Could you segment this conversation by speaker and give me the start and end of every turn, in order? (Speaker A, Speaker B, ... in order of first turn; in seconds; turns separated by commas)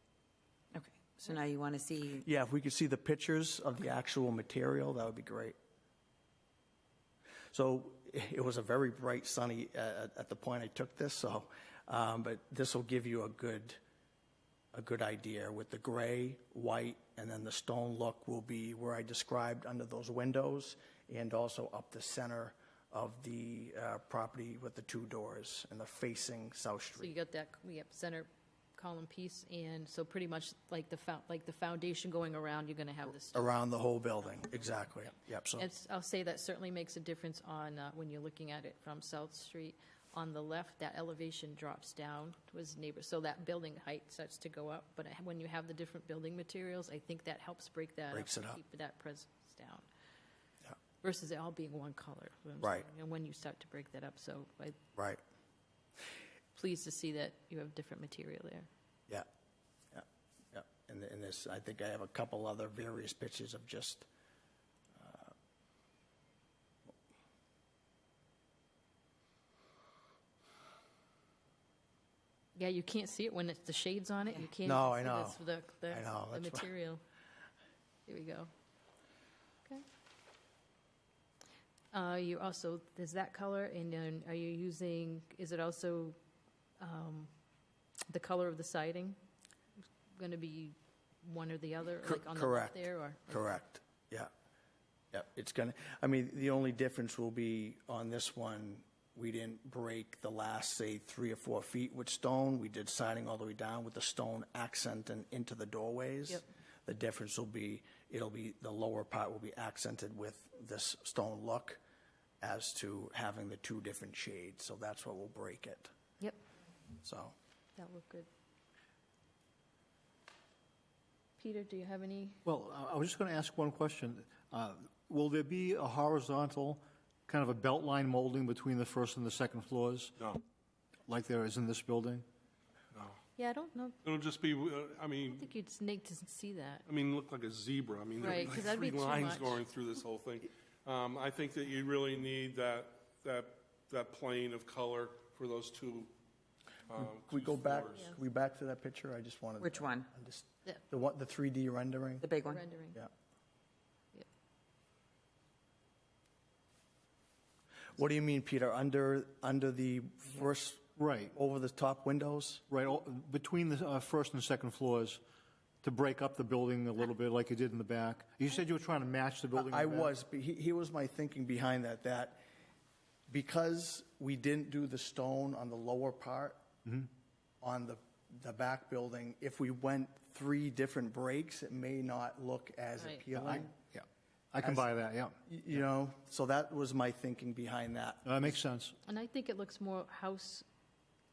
Speaker A: 0.7-2.2, Speaker B: 2.2-5.5, Speaker B: 7.5-13.8, Speaker B: 14.7-27.1, Speaker C: 27.0-33.5, Speaker B: 33.3-35.7, Speaker C: 35.6-49.9, Speaker B: 48.1-48.6, Speaker C: 51.0-54.8, Speaker B: 52.6-52.9, Speaker C: 56.5-58.7, Speaker B: 59.9-64.1, Speaker B: 65.0-65.3, Speaker C: 72.5-77.0, Speaker B: 74.6-76.7, Speaker C: 78.1-78.5, Speaker C: 81.9-86.2, Speaker C: 86.8-87.3, Speaker C: 88.1-89.2, Speaker C: 90.1-93.5, Speaker B: 92.0-94.3, Speaker B: 95.1-111.8, Speaker B: 112.4-115.9, Speaker B: 117.0-117.3, Speaker C: 117.8-118.3, Speaker C: 121.4-122.4, Speaker D: 122.4-130.2, Speaker D: 131.1-132.2, Speaker E: 132.9-133.2, Speaker C: 133.4-134.0, Speaker E: 134.0-135.5, Speaker C: 135.3-136.8, Speaker E: 136.9-146.1, Speaker C: 138.2-139.6, Speaker E: 146.9-148.1, Speaker B: 146.9-152.3, Speaker A: 149.6-150.1, Speaker A: 152.2-152.6, Speaker C: 152.4-153.0, Speaker B: 157.9-162.6, Speaker D: 161.0-161.3, Speaker D: 162.7-165.2, Speaker D: 165.8-170.1, Speaker B: 169.6-172.4, Speaker B: 173.3-176.6, Speaker B: 177.6-183.7, Speaker C: 183.0-183.2, Speaker D: 183.3-185.4, Speaker B: 184.6-184.8, Speaker B: 185.4-188.6, Speaker D: 188.2-188.9, Speaker C: 189.1-190.7